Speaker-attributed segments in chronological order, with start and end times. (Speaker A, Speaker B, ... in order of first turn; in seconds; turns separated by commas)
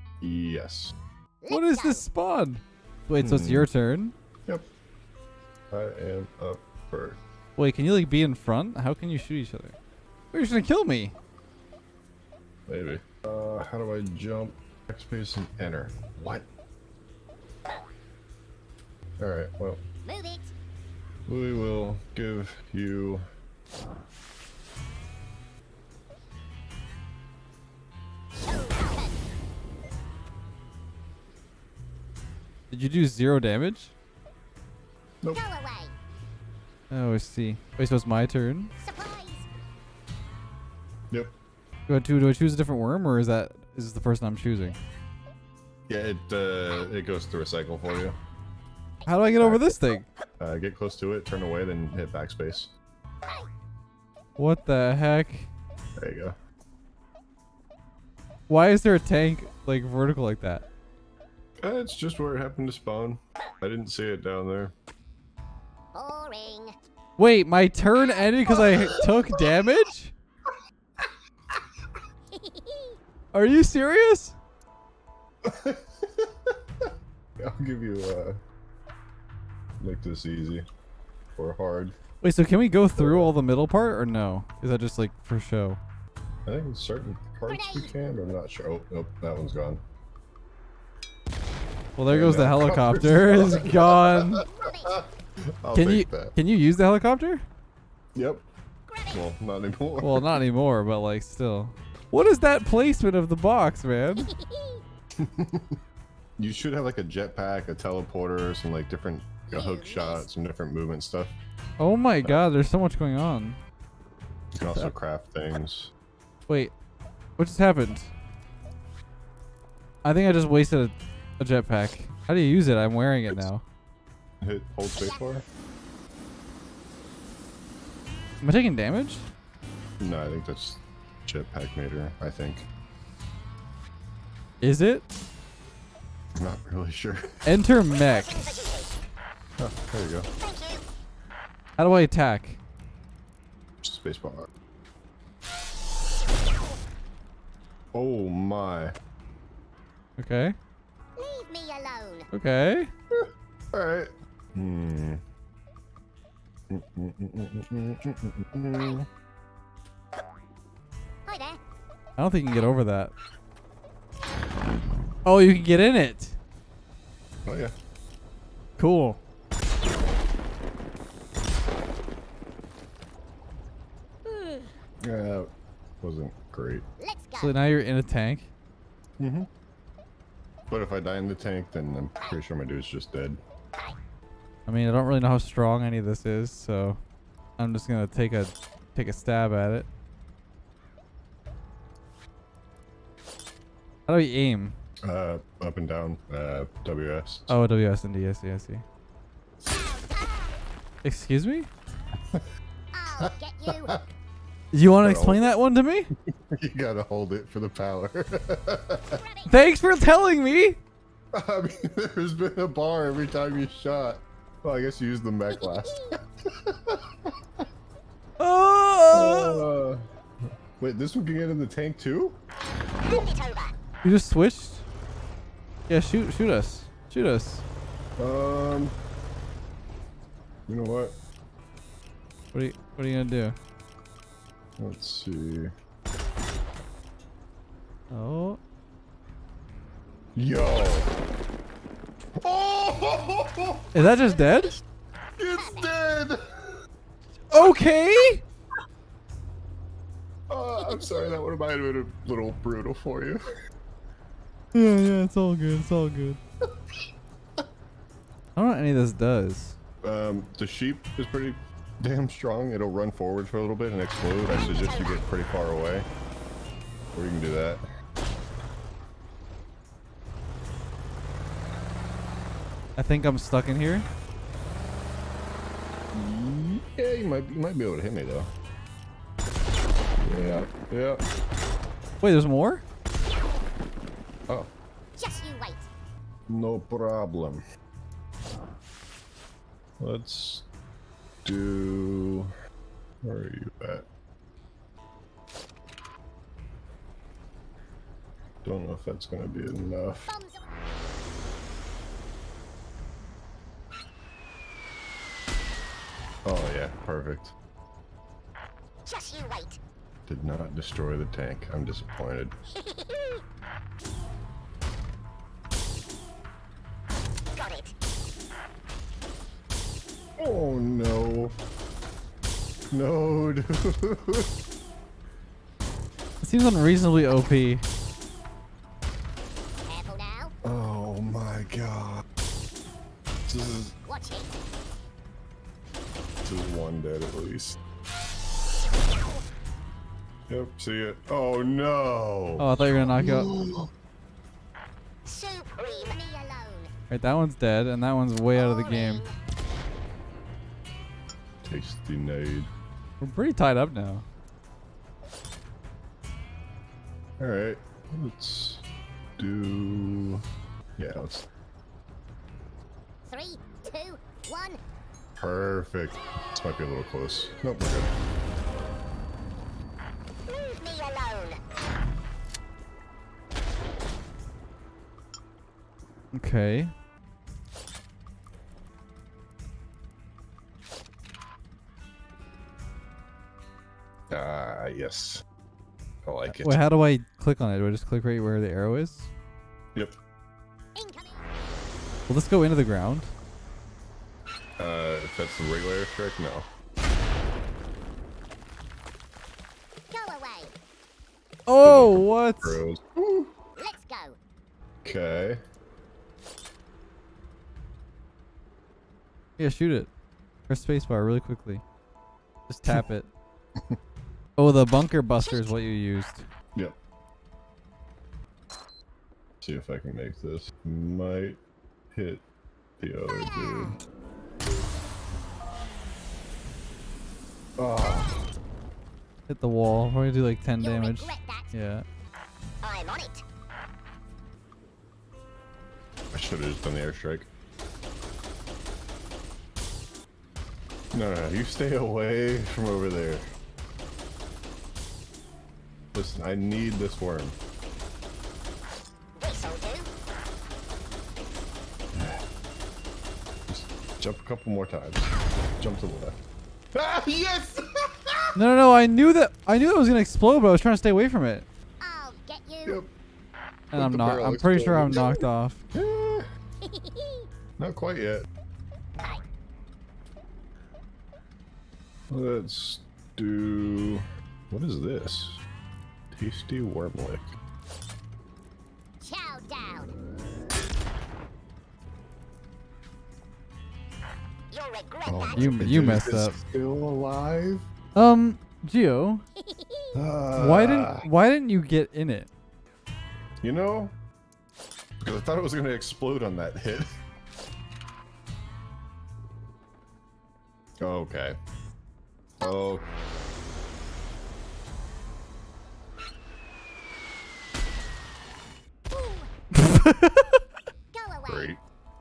Speaker A: 0.2-0.9, Speaker B: 1.4-2.0, Speaker C: 1.5-4.1, Speaker A: 3.2-3.7, Speaker A: 5.7-7.2, Speaker C: 7.6-9.8, Speaker C: 10.3-11.2, Speaker A: 12.7-16.5, Speaker A: 19.2-19.8, Speaker B: 20.1-20.5, Speaker A: 21.3-23.2, Speaker B: 28.4-29.2, Speaker C: 32.7-33.9, Speaker B: 35.3-36.0, Speaker C: 36.9-38.7, Speaker B: 38.8-39.5, Speaker C: 41.9-44.8, Speaker A: 45.9-48.2, Speaker C: 49.1-50.1, Speaker A: 49.4-49.8, Speaker A: 50.4-52.7, Speaker C: 54.4-55.5, Speaker A: 56.0-56.4, Speaker C: 58.5-60.6, Speaker A: 61.6-64.7, Speaker B: 65.9-66.7, Speaker C: 67.2-70.1, Speaker A: 68.5-69.0, Speaker B: 72.3-73.0, Speaker C: 73.3-74.4, Speaker A: 75.5-76.5, Speaker A: 77.4-78.4, Speaker A: 79.8-80.7, Speaker A: 81.4-82.0, Speaker C: 82.2-85.8, Speaker A: 83.0-83.4, Speaker A: 86.5-89.8, Speaker B: 87.5-87.9, Speaker C: 92.0-94.5, Speaker A: 92.1-95.0, Speaker B: 94.5-95.0, Speaker A: 95.6-96.3, Speaker C: 95.7-97.4, Speaker A: 98.2-98.5, Speaker B: 98.9-99.3, Speaker A: 99.1-100.4, Speaker C: 100.0-104.3, Speaker B: 104.2-104.8, Speaker A: 105.2-105.8, Speaker A: 106.4-111.4, Speaker B: 109.5-110.3, Speaker C: 111.8-113.6, Speaker A: 114.6-115.9, Speaker C: 116.5-116.7, Speaker C: 117.4-118.1, Speaker C: 120.0-123.6, Speaker A: 124.4-125.5, Speaker B: 125.0-125.2, Speaker C: 128.4-129.3, Speaker A: 130.0-132.7, Speaker C: 134.6-135.1, Speaker A: 136.4-137.5, Speaker C: 137.5-138.5, Speaker B: 138.0-139.0, Speaker A: 139.6-140.3, Speaker B: 140.4-140.8, Speaker C: 141.8-142.6, Speaker A: 143.8-144.5, Speaker A: 147.9-148.9, Speaker C: 150.2-150.6, Speaker B: 151.2-152.3, Speaker C: 152.3-152.9, Speaker A: 153.1-155.2, Speaker A: 156.7-159.1, Speaker B: 161.3-161.6, Speaker C: 162.2-163.1, Speaker C: 165.2-166.4, Speaker A: 167.4-167.7, Speaker C: 168.8-169.2, Speaker B: 174.2-174.7, Speaker A: 175.0-175.5, Speaker A: 176.0-176.8, Speaker B: 177.0-177.6, Speaker C: 177.4-178.5, Speaker A: 179.2-179.5, Speaker A: 180.7-183.4, Speaker C: 184.7-187.0, Speaker C: 187.6-189.9, Speaker C: 194.1-194.8, Speaker A: 195.0-197.6, Speaker C: 197.5-198.8, Speaker B: 199.6-200.6, Speaker C: 201.0-201.7, Speaker B: 202.9-204.0, Speaker A: 203.2-204.0, Speaker C: 204.7-206.1, Speaker A: 205.0-205.5, Speaker A: 206.5-209.2, Speaker B: 209.1-209.6, Speaker C: 209.5-210.8, Speaker A: 211.3-217.0, Speaker B: 215.5-216.1, Speaker C: 218.4-219.7, Speaker A: 219.1-220.0, Speaker A: 220.8-222.4, Speaker B: 223.0-223.8, Speaker C: 224.0-224.8, Speaker C: 225.9-227.7, Speaker A: 228.2-229.0, Speaker A: 230.7-231.2, Speaker C: 232.5-233.6, Speaker A: 234.8-235.7, Speaker C: 238.1-238.6, Speaker A: 240.4-241.1, Speaker A: 242.4-243.9, Speaker C: 243.9-244.8, Speaker B: 244.1-244.8, Speaker A: 245.4-246.4, Speaker B: 245.5-245.9, Speaker C: 247.5-248.4, Speaker A: 250.5-253.4, Speaker C: 254.7-256.4, Speaker C: 258.6-259.8, Speaker A: 260.0-266.1, Speaker B: 264.7-265.2, Speaker A: 267.1-267.8, Speaker C: 273.0-274.1, Speaker A: 276.1-278.5, Speaker A: 280.2-281.2, Speaker C: 282.2-282.9, Speaker B: 285.2-285.9, Speaker A: 286.5-287.6, Speaker A: 290.0-290.7, Speaker A: 291.4-292.5, Speaker A: 293.2-294.1, Speaker A: 298.6-300.3, Speaker B: 300.3-300.7, Speaker A: 306.4-307.5, Speaker B: 309.1-309.8, Speaker A: 310.3-312.6, Speaker B: 312.8-313.4, Speaker B: 317.6-317.9, Speaker A: 320.4-321.6, Speaker A: 322.9-324.5, Speaker C: 326.4-327.8, Speaker B: 329.9-330.5, Speaker A: 330.6-332.2, Speaker A: 333.5-333.9, Speaker B: 334.1-334.5, Speaker A: 336.4-337.8, Speaker A: 340.5-343.9, Speaker C: 342.6-343.5, Speaker B: 345.3-346.9, Speaker C: 347.1-349.2, Speaker B: 348.6-349.3, Speaker A: 351.6-352.7, Speaker C: 353.2-354.2, Speaker A: 357.4-358.9, Speaker A: 359.4-360.4, Speaker A: 361.0-361.4, Speaker B: 363.2-364.8, Speaker A: 365.4-368.1, Speaker B: 370.5-371.6, Speaker C: 376.3-376.9, Speaker A: 384.3-385.4, Speaker A: 386.2-386.8, Speaker C: 386.5-389.3, Speaker B: 391.0-391.5, Speaker C: 392.3-393.3, Speaker A: 394.8-396.7, Speaker B: 400.1-400.7, Speaker C: 401.7-402.8, Speaker A: 401.8-403.5, Speaker B: 403.8-404.4, Speaker A: 405.0-405.6, Speaker C: 409.6-410.1, Speaker C: 410.7-411.8, Speaker C: 412.7-413.3, Speaker C: 414.6-416.5, Speaker B: 415.4-415.8, Speaker A: 419.6-421.6, Speaker A: 422.1-422.4, Speaker A: 423.0-424.0, Speaker B: 423.3-423.9, Speaker A: 427.8-428.5, Speaker C: 429.5-432.1, Speaker B: 430.8-431.7, Speaker B: 432.8-433.4, Speaker A: 436.3-437.5, Speaker A: 441.1-443.5, Speaker A: 446.1-447.6, Speaker B: 449.4-450.1, Speaker A: 452.1-452.4, Speaker A: 453.7-455.3, Speaker B: 455.2-455.5, Speaker A: 455.8-456.4, Speaker A: 456.9-458.6, Speaker C: 458.6-461.7, Speaker B: 462.0-463.0, Speaker A: 462.9-463.1, Speaker C: 463.9-465.8, Speaker A: 463.9-466.5, Speaker B: 466.8-467.5, Speaker A: 467.8-468.5, Speaker A: 472.3-475.6, Speaker A: 476.3-477.5, Speaker B: 479.2-480.1, Speaker B: 484.7-485.7, Speaker A: 485.3-487.9, Speaker C: 485.6-486.6, Speaker C: 488.1-489.4, Speaker B: 489.6-490.1, Speaker A: 490.1-491.3, Speaker C: 490.5-492.5, Speaker A: 493.6-494.1, Speaker A: 495.2-497.2, Speaker A: 501.0-501.6, Speaker A: 502.6-503.1, Speaker B: 502.6-502.9, Speaker B: 509.1-509.5, Speaker C: 509.7-510.6, Speaker B: 511.1-511.8, Speaker A: 511.5-511.8